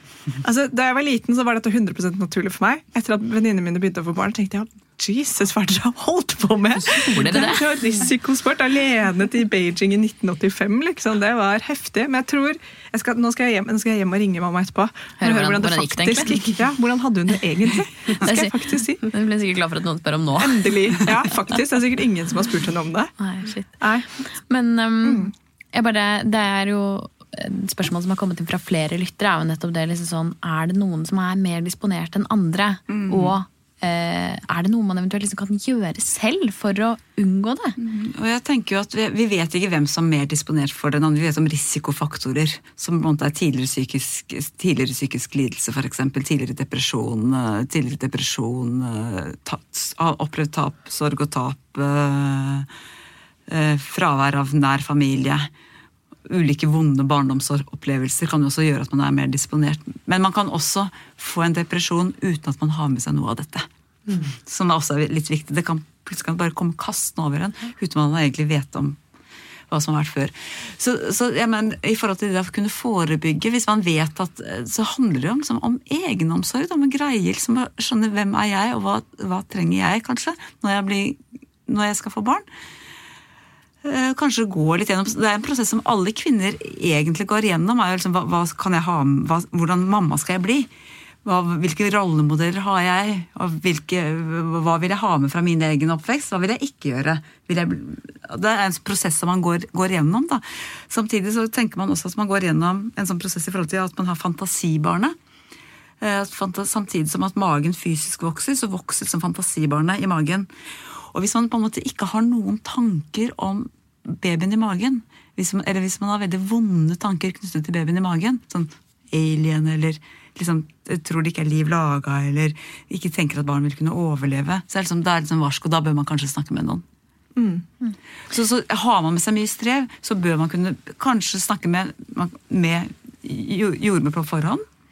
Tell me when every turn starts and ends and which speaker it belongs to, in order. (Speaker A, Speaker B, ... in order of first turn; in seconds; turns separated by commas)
Speaker A: 0.4-19.0, Speaker B: 6.8-8.0, Speaker B: 15.2-16.4, Speaker B: 18.1-21.1, Speaker A: 20.4-23.1, Speaker B: 23.2-37.8, Speaker A: 23.8-24.1, Speaker A: 25.0-25.3, Speaker C: 32.9-33.4, Speaker C: 37.8-52.7, Speaker C: 53.5-55.5, Speaker C: 56.3-63.6, Speaker C: 64.2-69.0, Speaker C: 69.7-82.4, Speaker C: 83.8-90.7, Speaker C: 91.2-105.1, Speaker C: 106.0-110.5, Speaker C: 111.1-126.8, Speaker A: 127.3-127.7, Speaker C: 128.3-134.6